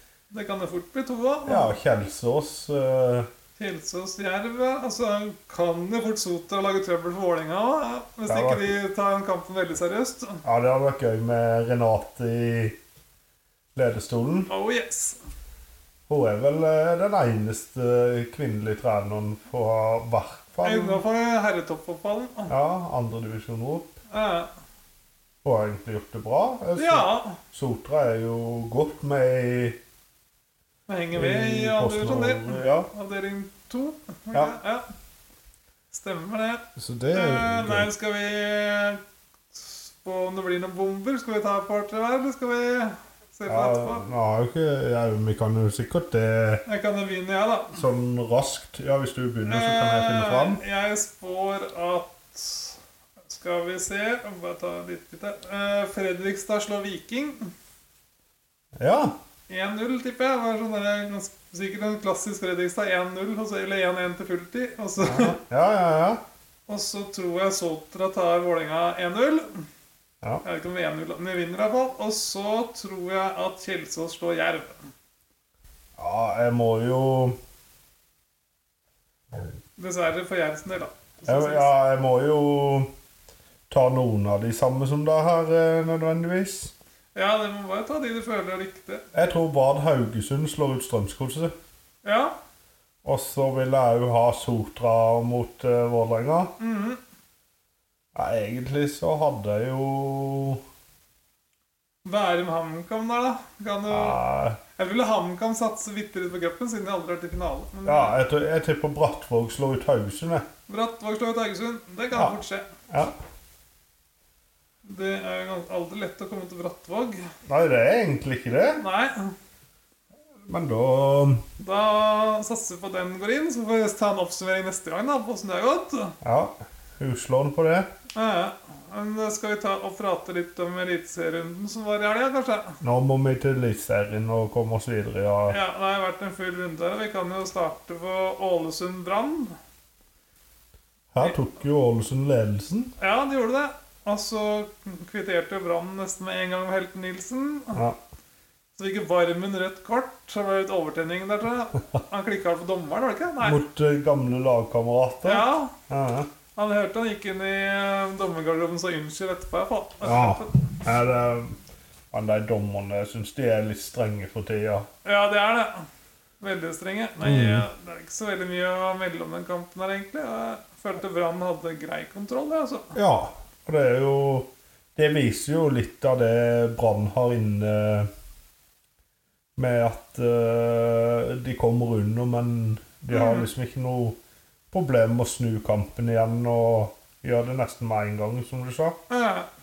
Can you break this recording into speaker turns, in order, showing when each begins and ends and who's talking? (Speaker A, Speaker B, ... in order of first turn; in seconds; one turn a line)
Speaker A: 0.3-1.8
Speaker B: 1.5-3.3
Speaker A: 3.6-10.4
Speaker B: 8.3-8.7
Speaker B: 10.4-12.8
Speaker B: 13.8-14.5
Speaker A: 14.5-15.2
Speaker B: 16.1-21.0
Speaker A: 20.6-22.5
Speaker B: 22.5-23.9
Speaker A: 24.1-24.5
Speaker B: 25.4-29.8
Speaker A: 26.8-27.4
Speaker A: 30.9-34.9
Speaker B: 31.1-32.9
Speaker A: 35.9-39.0
Speaker B: 36.8-37.9
Speaker A: 39.5-44.0
Speaker B: 43.5-46.6
Speaker A: 46.7-47.8
Speaker B: 47.7-50.6
Speaker A: 49.5-57.5
Speaker B: 58.8-59.1
Speaker A: 59.5-65.4
Speaker B: 65.0-66.2
Speaker A: 66.7-69.7
Speaker A: 70.4-74.8
Speaker B: 76.0-77.4
Speaker A: 79.8-81.7
Speaker B: 81.2-82.9
Speaker B: 83.7-86.7
Speaker A: 87.2-89.0
Speaker B: 89.1-91.5
Speaker A: 92.0-92.4
Speaker B: 93.0-96.5
Speaker A: 96.6-97.0
Speaker B: 98.2-100.6
Speaker A: 102.0-104.2
Speaker B: 103.9-104.6
Speaker A: 104.8-108.2
Speaker B: 107.9-110.5
Speaker A: 110.7-112.7
Speaker B: 112.1-112.4
Speaker A: 114.8-117.3
Speaker B: 117.5-118.8
Speaker A: 118.8-119.3
Speaker B: 120.5-121.5
Speaker A: 121.6-126.2
Speaker B: 126.2-127.9
Speaker A: 128.2-132.8
Speaker B: 132.8-135.6
Speaker A: 135.5-139.6
Speaker B: 141.1-142.9
Speaker A: 143.0-147.8
Speaker B: 147.7-148.0
Speaker A: 148.8-153.6
Speaker B: 153.4-156.3
Speaker A: 155.2-155.7
Speaker A: 156.6-160.5
Speaker B: 160.0-161.6
Speaker B: 162.1-164.9
Speaker A: 165.0-165.9
Speaker A: 166.4-172.9
Speaker B: 167.2-167.7
Speaker B: 172.9-178.1
Speaker B: 179.6-184.2
Speaker A: 183.1-183.5
Speaker B: 184.7-189.0
Speaker A: 189.1-189.5